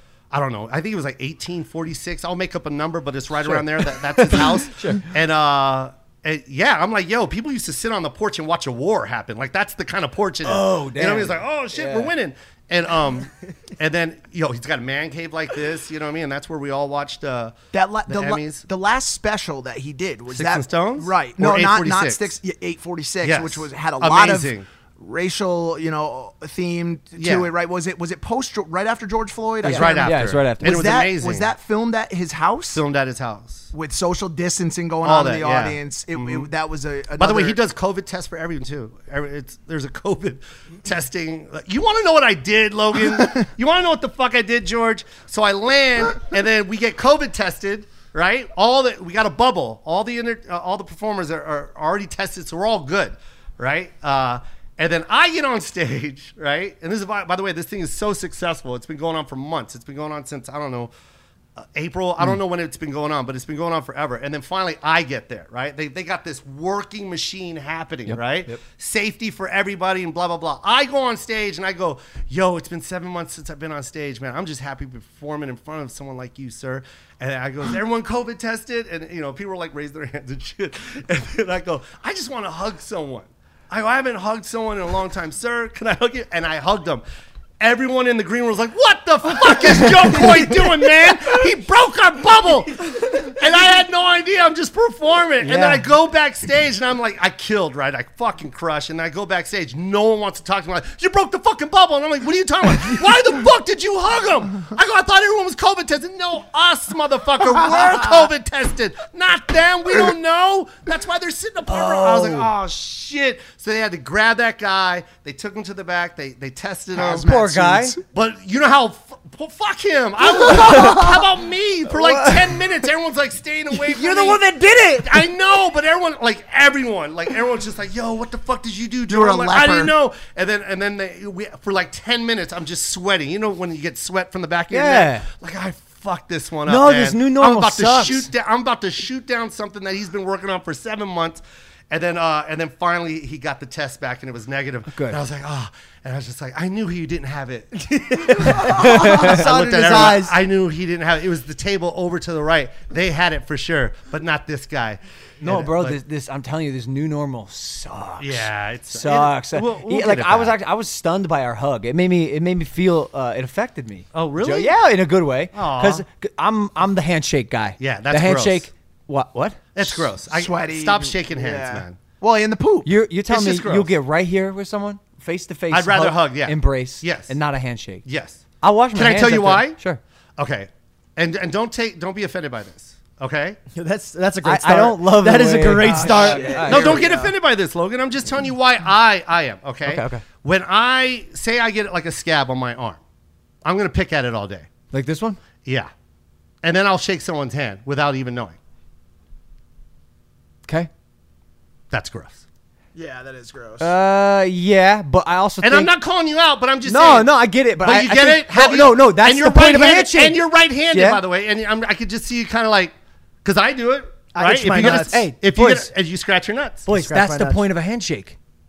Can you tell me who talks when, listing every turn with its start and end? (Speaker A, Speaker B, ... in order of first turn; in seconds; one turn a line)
Speaker A: 0.3-17.5
Speaker B: 3.4-5.0
Speaker B: 10.4-12.1
Speaker C: 17.7-32.8
Speaker A: 18.1-18.6
Speaker A: 20.3-22.4
Speaker A: 23.2-24.6
Speaker A: 27.2-27.5
Speaker A: 29.6-31.5
Speaker B: 29.6-30.8
Speaker A: 32.7-33.7
Speaker C: 33.7-37.6
Speaker A: 35.0-36.5
Speaker A: 37.2-60.9
Speaker A: 61.6-87.0
Speaker B: 68.1-68.6
Speaker A: 87.6-117.3
Speaker B: 95.4-95.8
Speaker B: 111.7-112.5
Speaker C: 116.9-118.0
Speaker B: 117.1-118.0
Speaker A: 118.1-124.4
Speaker B: 120.7-121.0
Speaker B: 121.9-122.5
Speaker B: 123.9-125.0
Speaker A: 125.0-156.0
Speaker C: 129.1-129.9
Speaker B: 134.7-135.2
Speaker B: 136.7-138.3
Speaker B: 144.9-145.2
Speaker D: 147.9-150.3
Speaker B: 148.7-149.4
Speaker B: 155.4-169.7
Speaker A: 158.2-160.5
Speaker A: 164.1-164.7
Speaker A: 165.5-166.0
Speaker A: 167.8-168.7
Speaker A: 169.7-172.0
Speaker C: 170.3-172.9
Speaker B: 172.8-178.0
Speaker A: 173.3-173.9
Speaker A: 175.7-177.4
Speaker A: 178.0-179.8
Speaker B: 178.6-180.0
Speaker A: 180.4-183.6
Speaker D: 183.7-186.7
Speaker B: 184.4-187.1
Speaker C: 185.8-187.3
Speaker A: 186.4-193.0
Speaker B: 189.8-190.2
Speaker A: 193.6-194.7
Speaker B: 194.9-195.4
Speaker A: 195.6-195.9
Speaker A: 196.6-198.6
Speaker A: 201.9-202.4
Speaker C: 202.9-203.9
Speaker B: 203.8-205.9
Speaker A: 205.6-212.9
Speaker B: 206.8-211.2
Speaker A: 213.4-216.8
Speaker D: 214.3-215.2
Speaker B: 214.7-215.9
Speaker B: 216.8-218.3
Speaker D: 216.9-217.6